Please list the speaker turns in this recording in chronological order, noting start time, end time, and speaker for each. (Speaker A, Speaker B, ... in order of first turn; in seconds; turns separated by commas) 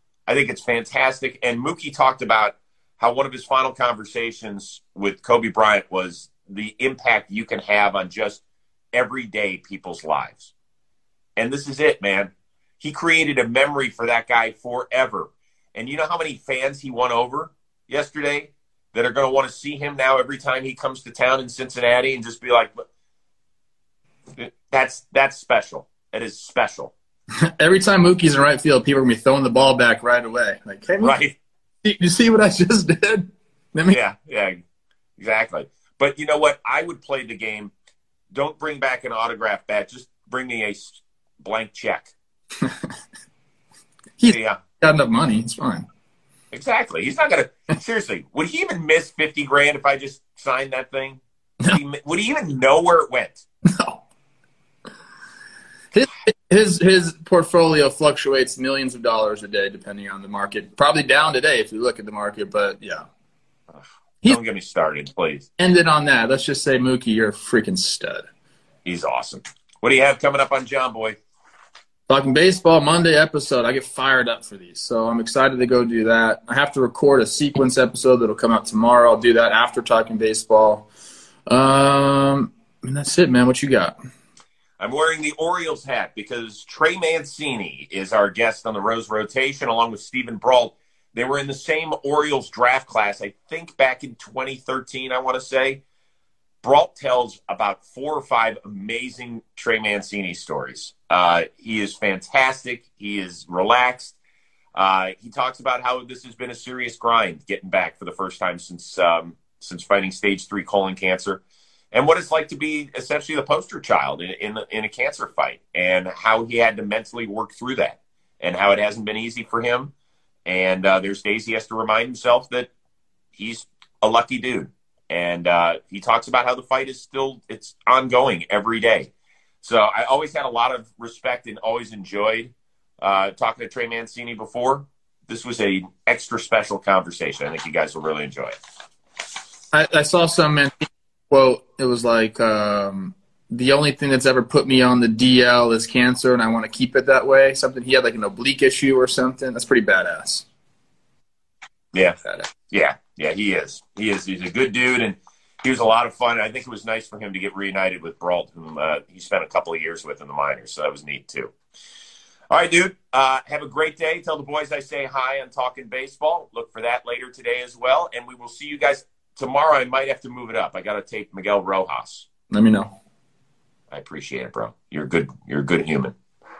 Speaker A: 0.3-8.4, Speaker A: 8.9-10.5, Speaker A: 11.4-22.8, Speaker A: 24.4-26.9, Speaker B: 27.6-31.2, Speaker A: 31.0-31.4, Speaker B: 31.8-34.0, Speaker A: 33.9-34.6, Speaker A: 35.2-37.7, Speaker A: 38.3-42.1, Speaker B: 42.6-42.9, Speaker B: 44.2-45.9, Speaker A: 44.3-44.6, Speaker A: 46.5-53.4, Speaker B: 53.7-54.0, Speaker B: 55.9-63.0, Speaker A: 64.2-65.5, Speaker B: 65.6-68.3, Speaker A: 68.8-71.2, Speaker B: 72.1-80.9, Speaker B: 81.5-84.0, Speaker A: 84.8-95.8, Speaker A: 96.6-104.2, Speaker A: 104.7-111.4, Speaker A: 111.9-119.9, Speaker A: 120.5-122.7, Speaker A: 123.3-129.1, Speaker A: 129.6-138.5, Speaker B: 139.7-150.4, Speaker A: 151.9-161.5, Speaker A: 162.5-172.3, Speaker B: 172.5-172.9, Speaker A: 173.9-176.2